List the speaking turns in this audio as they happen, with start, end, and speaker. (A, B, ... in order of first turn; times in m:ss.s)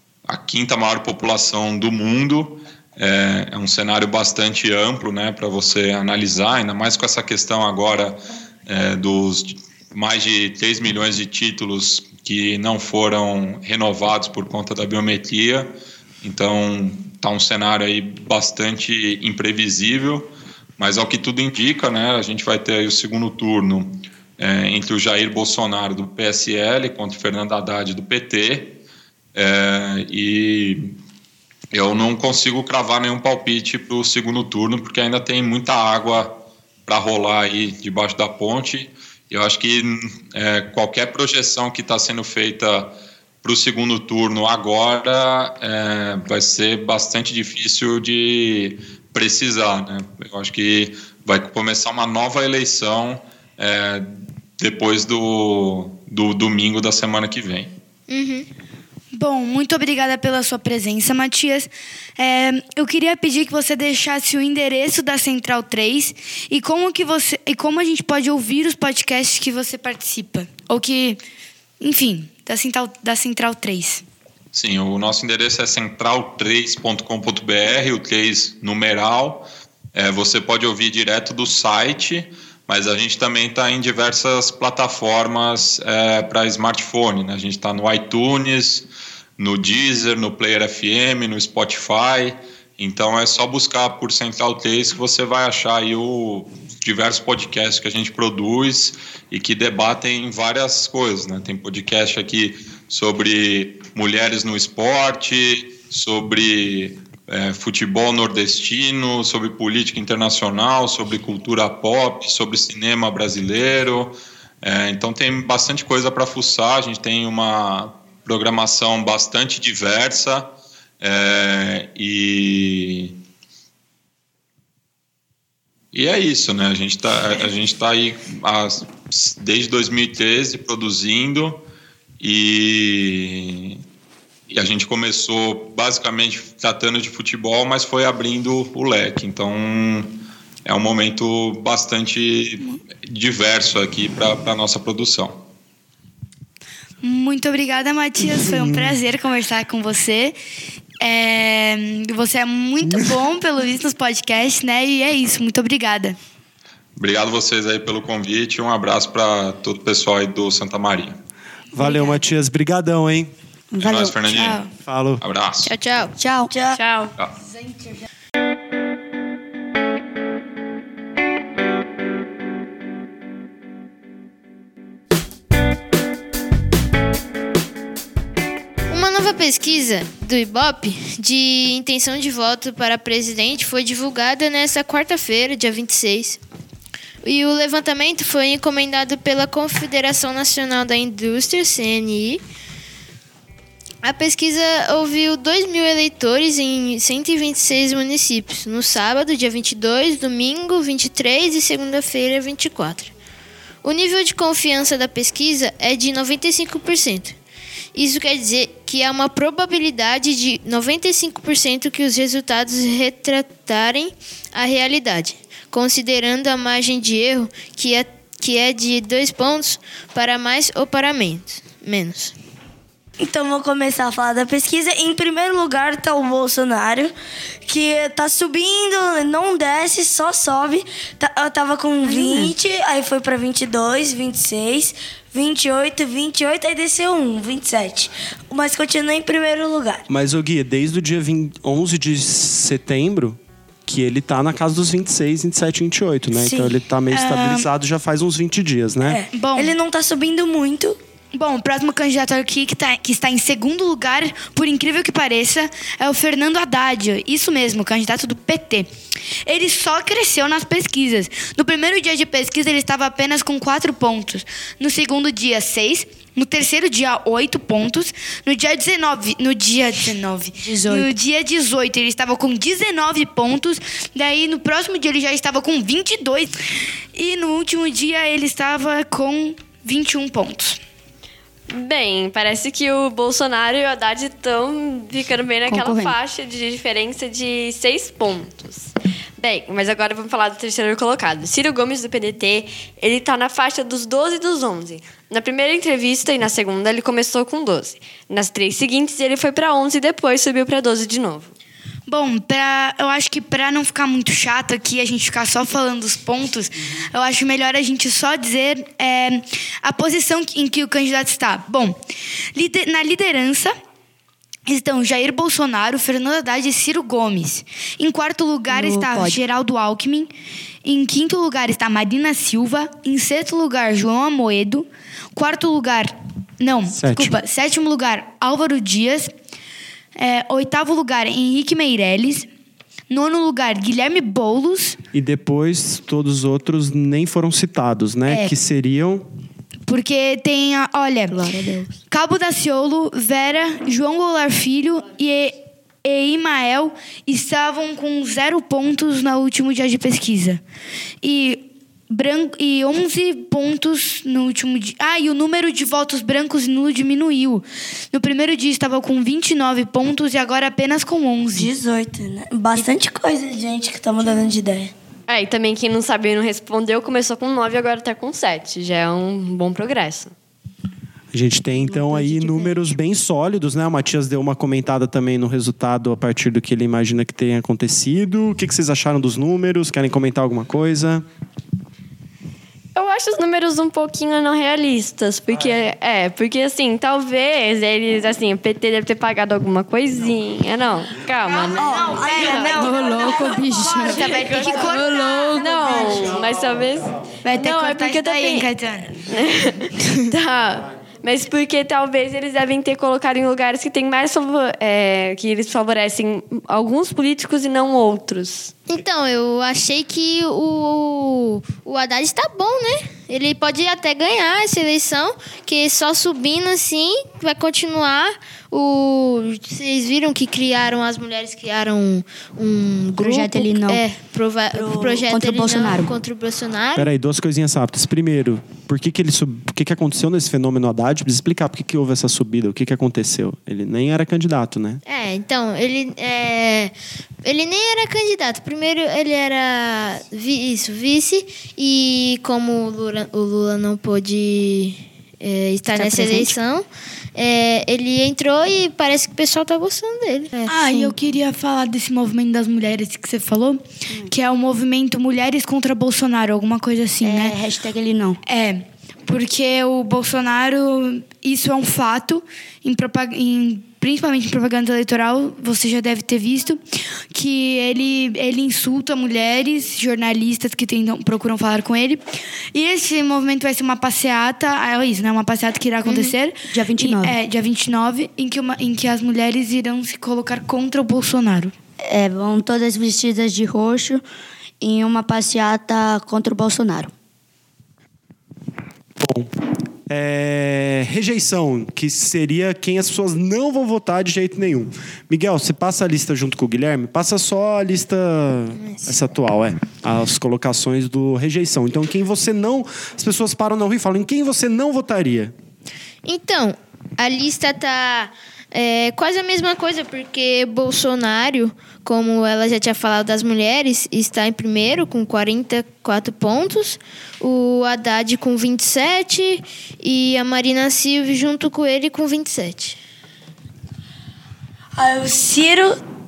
0:00.3-0:15.7 A
0:16.2-0:28.7 A
0:29.3-0:30.9 A
0:31.7-0:36.3 A
0:36.8-0:42.9 A
0:43.4-0:57.7 A
0:58.1-0:58.5 B
0:59.1-1:11.2 C
1:11.8-1:14.0 C
1:14.5-1:28.9 A
1:29.4-2:00.5 A
2:01.0-2:03.1 A
2:05.9-2:11.6 A
2:12.2-2:13.8 A
2:14.5-2:20.1 A
2:20.6-2:25.4 A
2:27.0-2:30.4 C
2:28.4-2:28.9 D
2:31.0-2:36.2 C
2:37.0-2:41.2 A
2:41.7-2:43.3 D
2:41.8-2:42.1 C
2:43.7-2:44.6 E
2:43.8-2:44.7 A
2:44.8-2:45.2 D
2:45.2-2:45.7 A
2:45.6-2:46.1 B
2:46.2-2:46.6 E
2:46.7-2:47.1 F
2:47.5-2:47.9 C
2:58.9-3:06.4 B
3:07.2-3:12.4 B
3:14.0-3:23.1 B
3:23.8-3:27.4 B
3:27.9-3:42.4 B
3:43.2-3:47.1 G
3:47.6-4:00.0 G
3:52.1-3:52.5 E
4:00.1-4:09.2 D
4:06.3-4:06.8 G
4:07.1-4:07.7 C
4:09.0-4:11.0 G
4:09.3-4:09.8 C
4:11.3-4:18.9 C
4:19.4-4:36.6 C
4:30.5-4:31.1 E
4:37.1-4:40.8 C
4:41.7-5:01.5 F
4:45.7-4:46.1 E
5:02.1-5:12.0 C
5:12.5-5:13.7 C
5:14.7-5:20.3 C
5:18.7-5:19.4 E
5:20.8-5:29.3 C
5:26.9-5:27.4 D
5:30.2-5:32.5 C
5:33.1-5:35.0 C
5:35.1-5:39.2 D
5:38.3-5:38.5 C
5:39.9-5:41.4 C
5:41.3-5:42.0 E
5:42.1-5:50.6 C
5:51.2-6:01.7 C
6:01.5-6:04.9 G
6:05.3-6:10.3 F
6:11.3-6:21.2 D
6:11.7-6:12.8 E
6:22.9-6:32.3 F
6:31.4-6:36.5 C
6:31.5-6:35.9 G
6:32.6-6:36.4 E
6:34.0-6:34.9 F
6:35.5-6:48.7 F
6:37.4-6:39.2 C
6:48.9-7:07.1 B
7:03.2-7:04.0 E
7:04.7-7:06.1 E
7:07.0-7:15.0 D
7:15.0-7:16.9 B
7:17.4-7:31.1 B
7:25.9-7:26.5 E
7:30.7-7:37.6 C
7:37.2-7:38.4 E
7:38.4-8:01.7 C
7:56.0-7:56.3 B
7:56.7-7:57.4 E
8:02.0-8:04.2 E
8:04.8-8:07.1 E
8:09.2-8:09.5 D
8:10.1-8:25.5 D
8:18.8-8:19.2 B
8:26.2-8:43.0 B
8:45.0-8:46.0 G